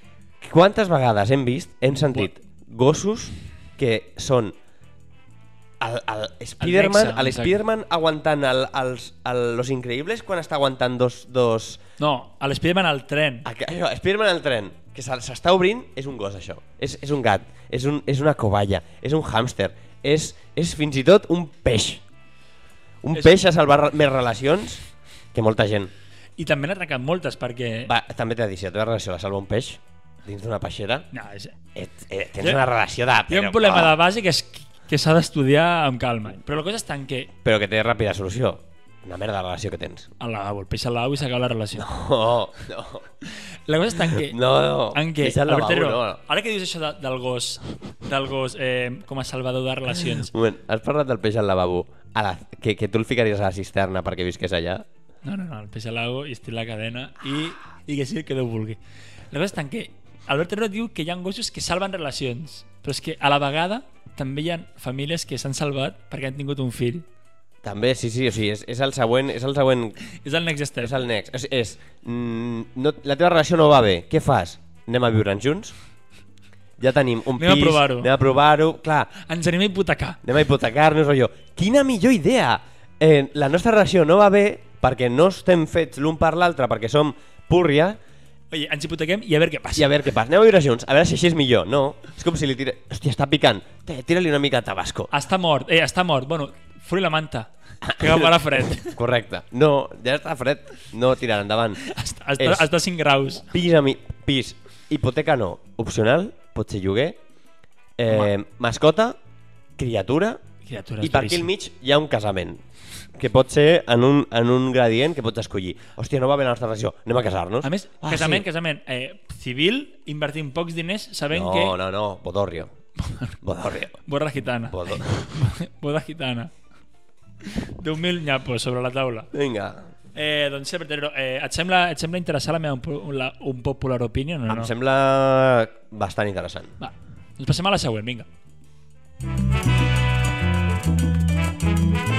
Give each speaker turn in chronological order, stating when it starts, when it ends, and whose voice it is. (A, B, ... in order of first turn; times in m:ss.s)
0:00.4-0:04.6 A
0:05.8-0:11.8 A
0:06.6-0:07.6 B
0:12.0-0:13.4 B
0:13.4-0:22.0 A
0:23.0-0:25.9 A
0:26.4-0:27.9 B
0:27.8-0:31.1 A
0:31.1-0:31.5 B
0:31.7-0:34.0 A
0:33.3-0:37.3 B
0:37.4-0:40.1 A
0:40.2-0:41.9 B
0:41.8-0:43.1 A
0:43.2-0:50.3 B
0:43.9-0:46.2 A
0:50.2-0:54.8 A
0:55.2-0:58.8 B
0:59.3-1:07.0 B
1:07.6-1:10.0 A
1:10.1-1:11.0 B
1:10.8-1:15.7 A
1:16.8-1:19.1 A
1:17.4-1:18.1 B
1:19.2-1:20.2 B
1:20.2-1:28.0 A
1:28.5-1:29.9 B
1:29.7-1:35.1 A
1:35.1-1:39.0 B
1:37.8-1:41.8 A
1:41.8-1:43.5 B
1:42.4-1:42.7 A
1:43.5-1:47.2 A
1:48.0-1:49.2 A
1:49.8-1:50.4 A
1:50.6-1:51.5 B
1:51.0-1:52.6 A
1:53.1-1:58.4 A
1:57.6-2:01.8 B
2:01.3-2:02.7 A
2:03.0-2:03.4 B
2:03.4-2:04.0 A
2:04.0-2:06.5 B
2:04.7-2:05.3 A
2:07.4-2:09.3 B
2:09.3-2:09.9 A
2:10.1-2:14.7 B
2:14.5-2:16.8 A
2:16.8-2:18.3 B